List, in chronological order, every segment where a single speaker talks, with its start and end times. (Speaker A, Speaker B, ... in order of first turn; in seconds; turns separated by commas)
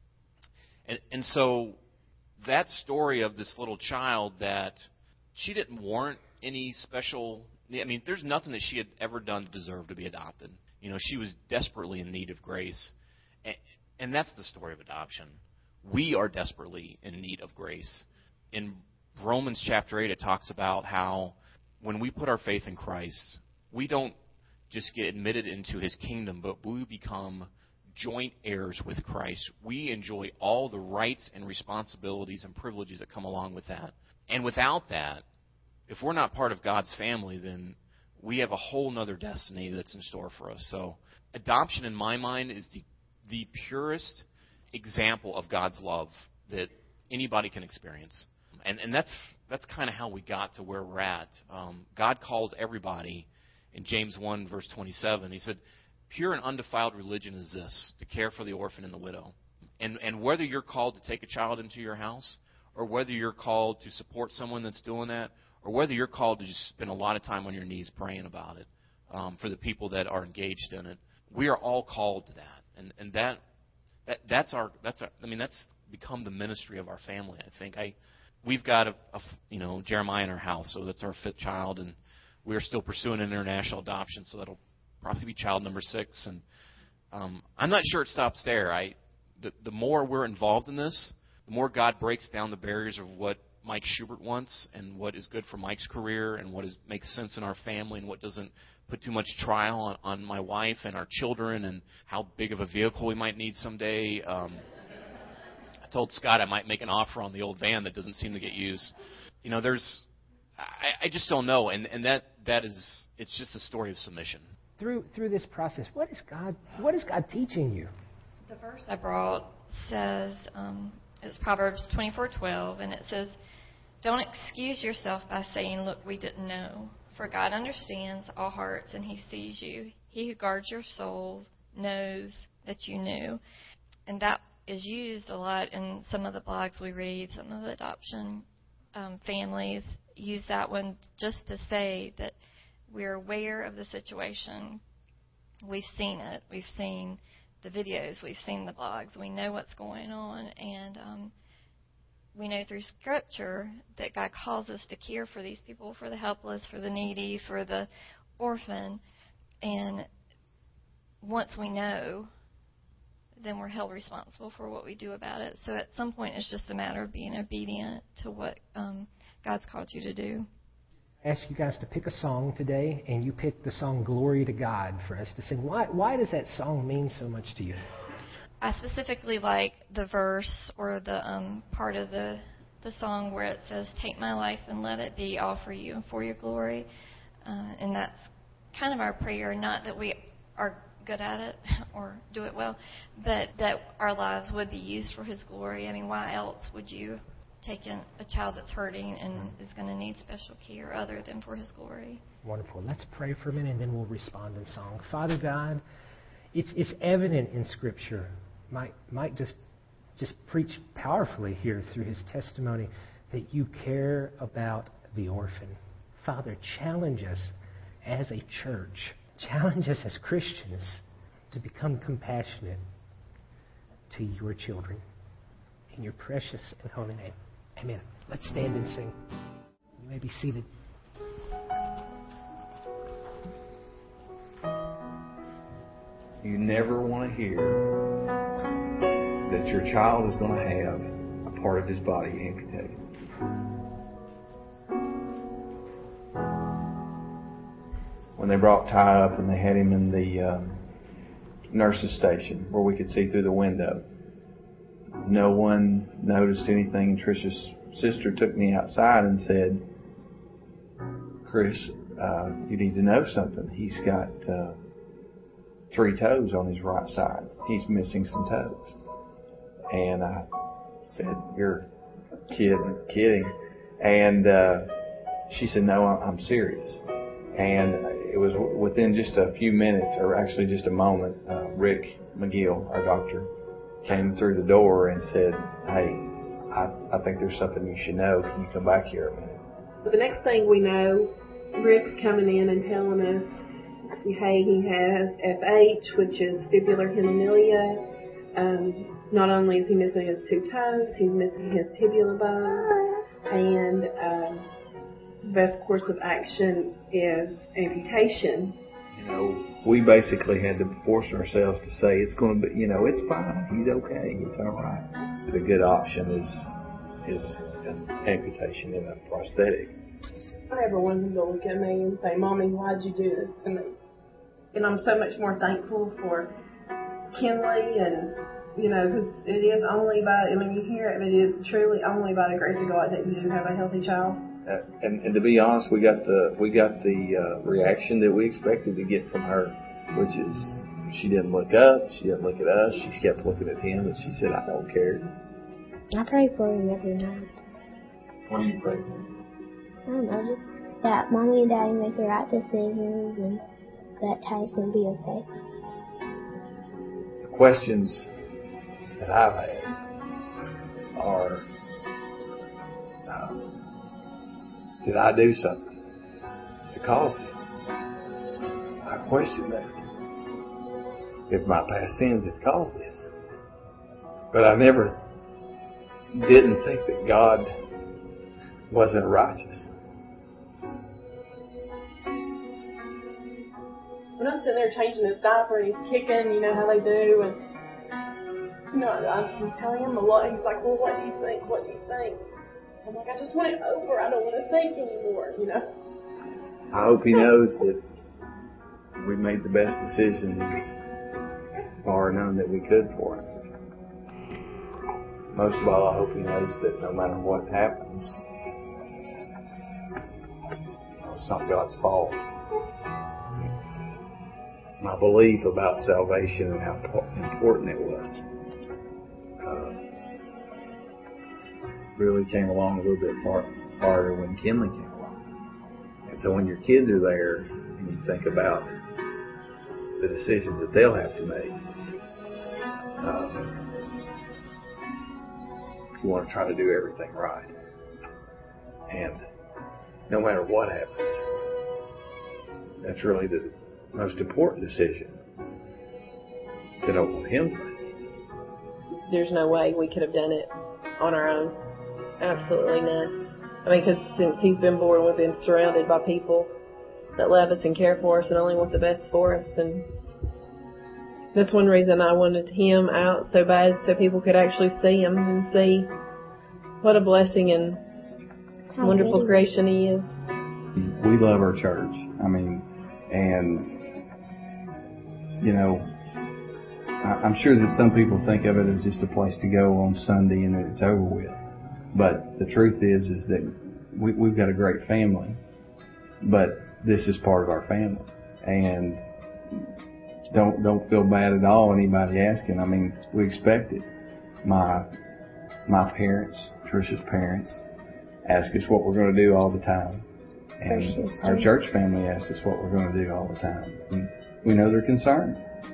Speaker A: 0.9-1.8, Speaker A: 2.4-12.9, Speaker A: 13.4-24.1, Speaker A: 24.7-35.2, Speaker A: 35.9-73.4, Speaker A: 74.0-86.4, Speaker A: 87.1-104.6, Speaker A: 105.8-110.0, Speaker A: 110.6-114.5, Speaker B: 114.8-117.9, Speaker C: 118.5-123.3, Speaker C: 124.0-133.4, Speaker C: 134.1-142.3, Speaker C: 142.9-144.8, Speaker C: 145.6-151.3, Speaker C: 152.3-159.0, Speaker C: 159.6-160.1, Speaker C: 161.2-162.3, Speaker C: 163.4-170.5, Speaker B: 171.2-177.8, Speaker C: 178.6-186.9, Speaker C: 187.4-202.2, Speaker B: 202.4-205.8, Speaker B: 206.5-209.6, Speaker B: 210.2-217.5, Speaker B: 218.0-222.8, Speaker B: 224.1-225.0, Speaker B: 225.9-229.1, Speaker B: 230.0-230.7, Speaker D: 236.4-237.9, Speaker D: 239.4-243.0, Speaker D: 248.3-250.8, Speaker D: 251.7-254.0, Speaker D: 255.2-259.8, Speaker D: 261.4-264.8, Speaker D: 265.9-268.9, Speaker D: 269.9-270.5, Speaker D: 271.1-271.9, Speaker D: 272.5-274.9, Speaker D: 275.5-283.5, Speaker D: 284.0-289.5, Speaker E: 290.0-293.6, Speaker E: 294.2-302.9, Speaker E: 303.5-304.6, Speaker E: 305.4-308.8, Speaker D: 309.1-316.7, Speaker D: 317.2-319.9, Speaker E: 320.7-323.9, Speaker E: 324.7-326.5, Speaker E: 327.3-334.4, Speaker D: 334.6-345.3, Speaker F: 346.1-347.6, Speaker D: 348.5-349.2, Speaker F: 350.1-353.6, Speaker F: 354.2-355.4, Speaker D: 357.4-358.3, Speaker D: 359.2-359.9, Speaker D: 361.1-361.7, Speaker D: 363.3-363.6, Speaker D: 365.0-365.9, Speaker D: 366.9-367.7, Speaker D: 369.0-370.0, Speaker D: 371.5-373.3, Speaker D: 374.5-375.2, Speaker D: 376.3-377.7, Speaker D: 378.9-379.9, Speaker E: 384.4-387.6, Speaker E: 388.9-392.4, Speaker E: 393.0-395.8, Speaker D: 396.9-398.0, Speaker D: 399.2-400.8, Speaker D: 402.0-403.5, Speaker D: 405.5-408.4, Speaker D: 411.2-412.4, Speaker D: 415.0-418.5, Speaker D: 419.6-420.0, Speaker D: 422.1-425.4, Speaker D: 426.3-428.9, Speaker D: 430.2-431.8, Speaker D: 433.2-433.8, Speaker D: 436.2-437.7, Speaker D: 439.1-439.4, Speaker D: 440.3-441.4, Speaker D: 443.0-445.4, Speaker D: 447.0-448.0, Speaker E: 449.3-451.8, Speaker E: 452.4-456.7, Speaker E: 457.4-460.1, Speaker E: 461.5-466.1, Speaker E: 467.0-468.0, Speaker F: 468.9-469.7, Speaker E: 469.0-470.4, Speaker D: 471.0-473.9, Speaker D: 475.6-476.1, Speaker D: 477.2-481.6, Speaker D: 482.1-485.6, Speaker D: 486.4-489.2, Speaker D: 490.5-494.1, Speaker D: 494.6-495.1, Speaker D: 495.9-497.8, Speaker D: 498.4-500.2, Speaker D: 500.8-505.6, Speaker F: 500.9-501.7